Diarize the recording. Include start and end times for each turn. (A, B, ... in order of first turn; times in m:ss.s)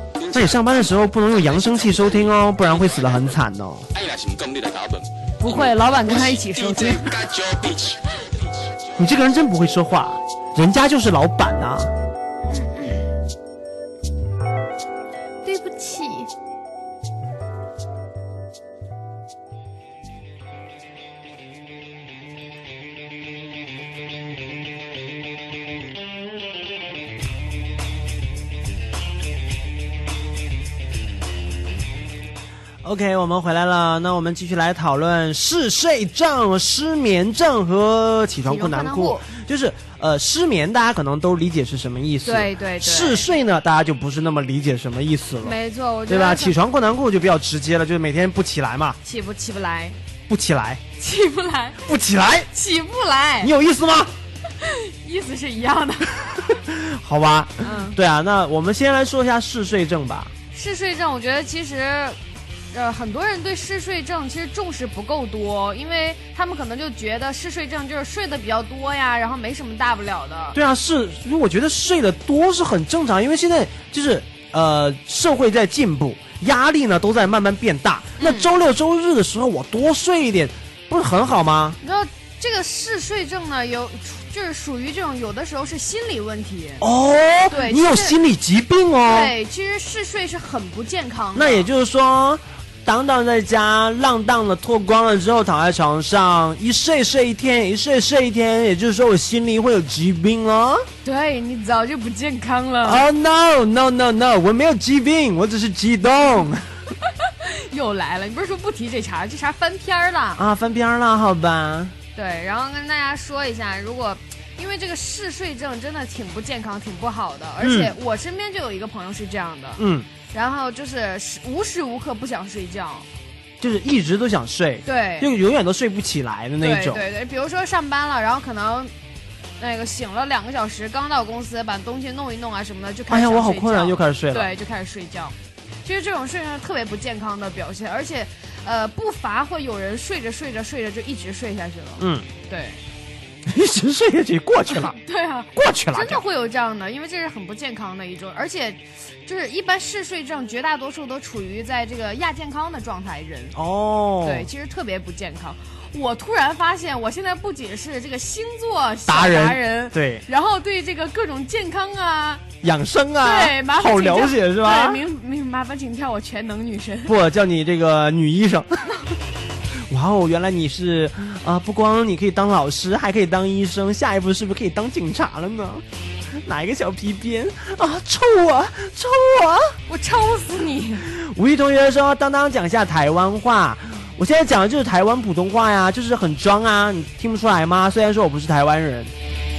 0:00.2-0:03.4 A
0:00.3-0:03.9 B
0:03.9-0:08.0 A
0:05.4-0:07.1 C
0:09.0-0:11.9 B
0:15.4-0:16.3 C
0:32.8-0:49.0 B
0:38.4-0:39.3 C
0:42.2-0:43.3 C
0:45.4-0:46.6 C
0:49.0-0:50.0 C
0:50.3-0:50.8 B
0:51.0-0:51.9 C
0:51.8-0:52.5 B
0:52.5-0:53.5 C
0:53.4-0:54.1 B
0:54.6-0:56.4 C
0:56.5-1:00.3 B
0:57.6-0:58.0 C
1:00.5-1:02.2 C
1:02.7-1:10.6 C
1:10.5-1:21.8 B
1:18.2-1:18.5 C
1:21.8-1:26.8 C
1:26.8-1:29.3 B
1:27.5-1:28.2 C
1:29.1-1:31.7 C
1:31.4-1:40.9 B
1:41.0-1:43.0 C
1:42.8-1:46.7 B
1:47.2-1:50.4 C
1:50.4-1:51.9 B
1:52.2-2:03.1 C
1:57.6-1:58.0 B
1:59.8-2:00.1 B
2:03.6-2:07.0 B
2:04.8-2:05.3 C
2:06.6-2:08.9 C
2:09.6-2:15.3 C
2:13.1-2:14.5 B
2:15.8-2:22.8 C
2:22.0-2:22.3 B
2:23.5-2:25.0 B
2:24.7-2:33.6 C
2:25.6-2:26.2 B
2:33.5-2:34.5 B
2:34.2-2:42.4 C
2:39.1-2:40.2 B
2:42.6-2:45.0 B
2:43.2-2:47.2 C
2:47.1-2:48.8 B
2:49.9-2:55.8 B
2:56.4-2:59.8 B
2:59.9-3:01.1 C
3:01.1-3:09.1 B